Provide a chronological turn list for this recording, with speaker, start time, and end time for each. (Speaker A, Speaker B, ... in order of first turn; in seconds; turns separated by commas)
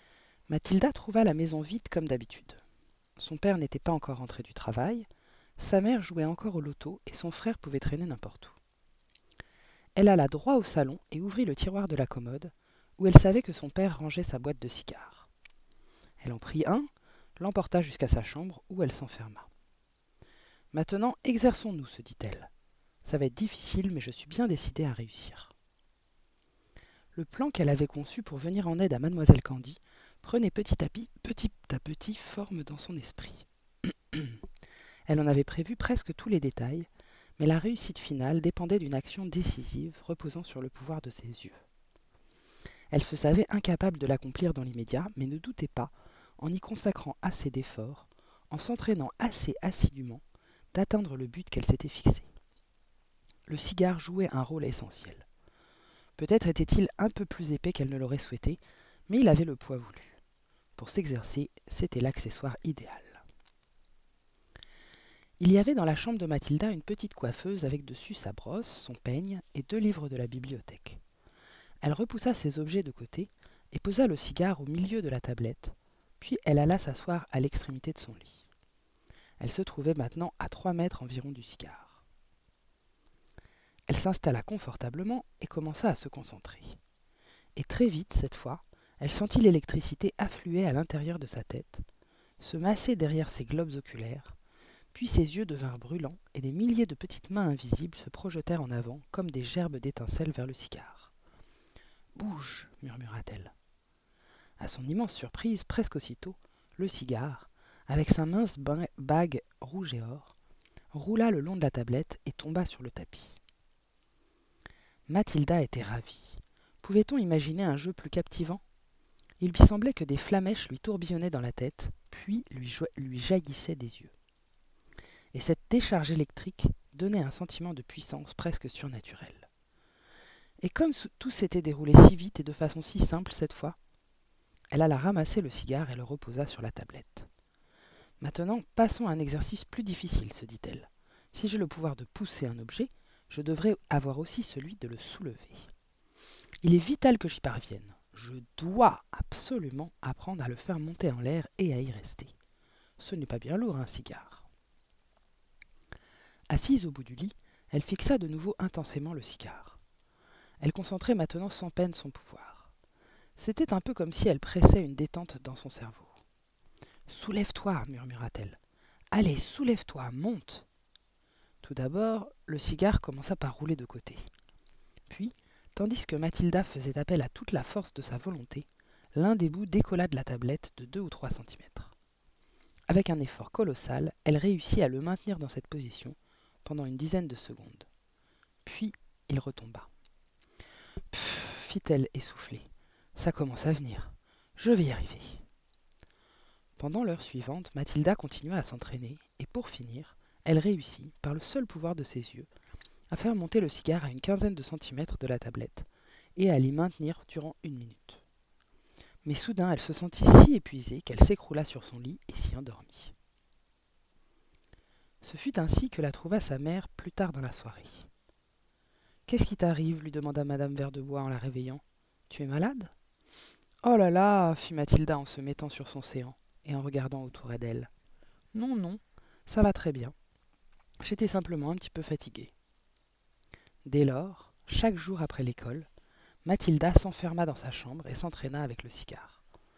Speaker A: 0.5-2.6, Speaker A: 3.2-5.1, Speaker A: 5.6-8.6, Speaker A: 10.0-15.3, Speaker A: 16.2-19.5, Speaker A: 20.7-22.5, Speaker A: 23.1-25.5, Speaker A: 27.1-33.5, Speaker A: 35.1-41.6, Speaker A: 42.9-52.3, Speaker A: 53.5-55.3, Speaker A: 56.2-60.2, Speaker A: 60.8-63.2, Speaker A: 65.4-71.0, Speaker A: 71.8-78.5, Speaker A: 79.4-82.0, Speaker A: 83.9-86.8, Speaker A: 87.6-91.8, Speaker A: 92.4-94.4, Speaker A: 94.9-101.1, Speaker A: 102.2-103.5, Speaker A: 104.6-110.3, Speaker A: 110.9-113.4, Speaker A: 115.1-118.6, Speaker A: 119.4-124.1, Speaker A: 125.3-129.5, Speaker A: 130.6-133.8, Speaker A: 134.7-137.3, Speaker A: 138.2-145.7, Speaker A: 146.6-152.3, Speaker A: 153.0-154.5, Speaker A: 156.5-159.8, Speaker A: 160.6-162.7, Speaker A: 163.4-166.2, Speaker A: 167.1-168.6, Speaker A: 169.1-170.7, Speaker A: 171.6-174.3, Speaker A: 175.1-181.9, Speaker A: 182.9-187.9, Speaker A: 188.6-189.9, Speaker A: 191.1-195.4, Speaker A: 196.8-202.5, Speaker A: 203.1-208.2, Speaker A: 209.2-213.1, Speaker A: 215.2-218.1, Speaker A: 219.3-222.9, Speaker A: 223.8-227.9, Speaker A: 228.5-230.2, Speaker A: 231.0-232.5, Speaker A: 233.8-235.9, Speaker A: 236.4-239.4